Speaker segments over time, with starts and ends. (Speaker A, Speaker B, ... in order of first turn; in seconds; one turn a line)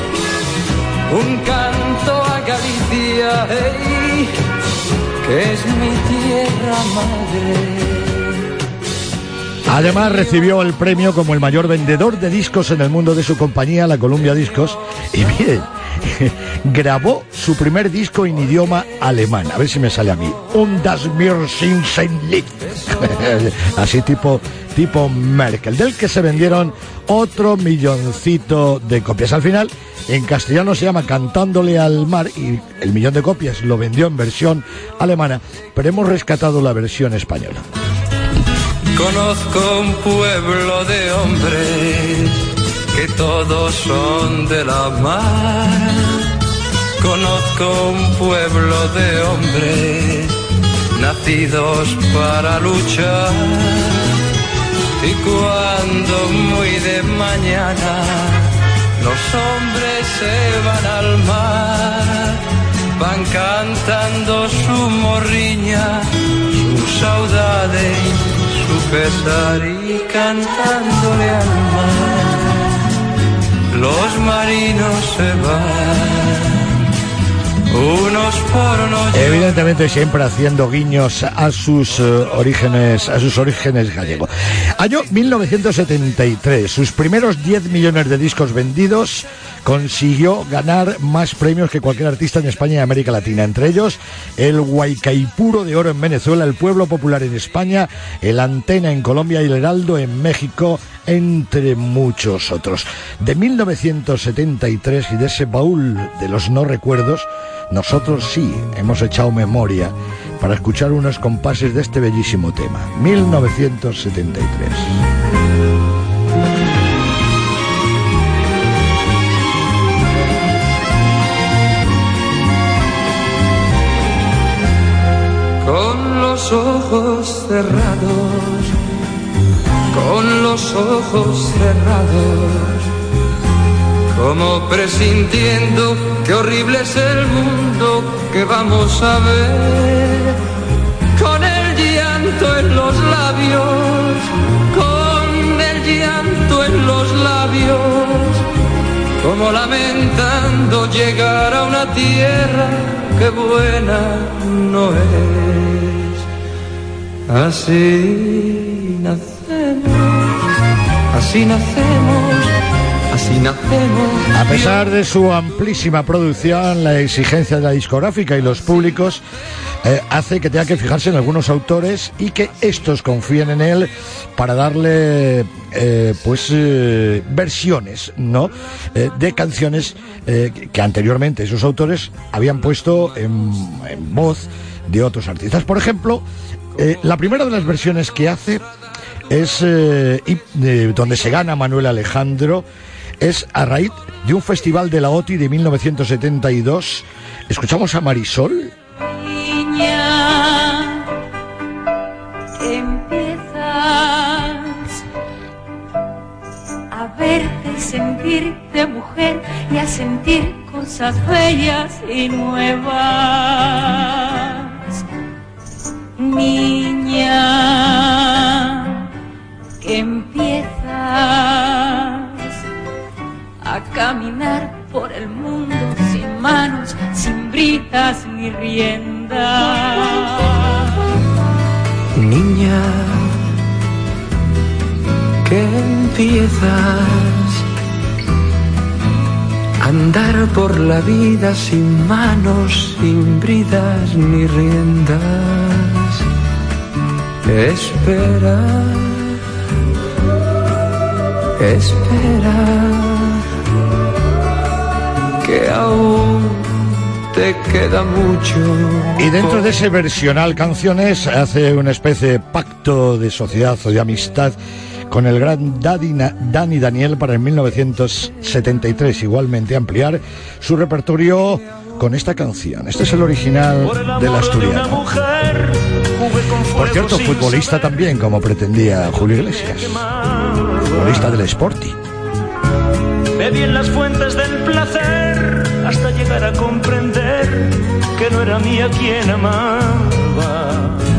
Speaker A: 1.1-4.3
Speaker A: 5.2-8.4
Speaker B: 9.7-37.6
Speaker A: 22.9-23.2
Speaker A: 38.9-46.2
Speaker A: 47.0-50.4
Speaker A: 50.9-54.2
Speaker A: 55.0-62.4
Speaker A: 63.0-72.6
Speaker A: 73.7-76.7
Speaker A: 77.7-79.6
Speaker B: 79.1-115.0
Speaker A: 125.6-128.8
Speaker A: 129.9-132.9
Speaker A: 134.1-140.4
Speaker A: 141.1-148.5
Speaker A: 149.2-156.2
Speaker A: 157.3-160.4
Speaker A: 161.1-162.5
Speaker A: 163.1-164.8
Speaker B: 164.3-169.2
Speaker B: 169.8-186.2
Speaker B: 186.8-188.6
Speaker B: 189.3-192.7
Speaker B: 193.2-198.7
Speaker C: 199.0-201.1
Speaker C: 202.6-205.0
Speaker C: 206.9-215.0
Speaker C: 216.2-219.1
Speaker C: 219.8-222.6
Speaker C: 223.6-231.0
Speaker A: 232.1-233.4
Speaker A: 235.4-237.6
Speaker A: 239.8-246.2
Speaker A: 247.4-249.4
Speaker A: 251.6-253.4
Speaker A: 255.4-259.7
Speaker B: 259.2-264.6
Speaker B: 265.1-275.0
Speaker D: 273.8-278.1
Speaker B: 276.8-280.1
Speaker D: 279.1-281.4
Speaker B: 280.9-281.9
Speaker D: 283.4-291.0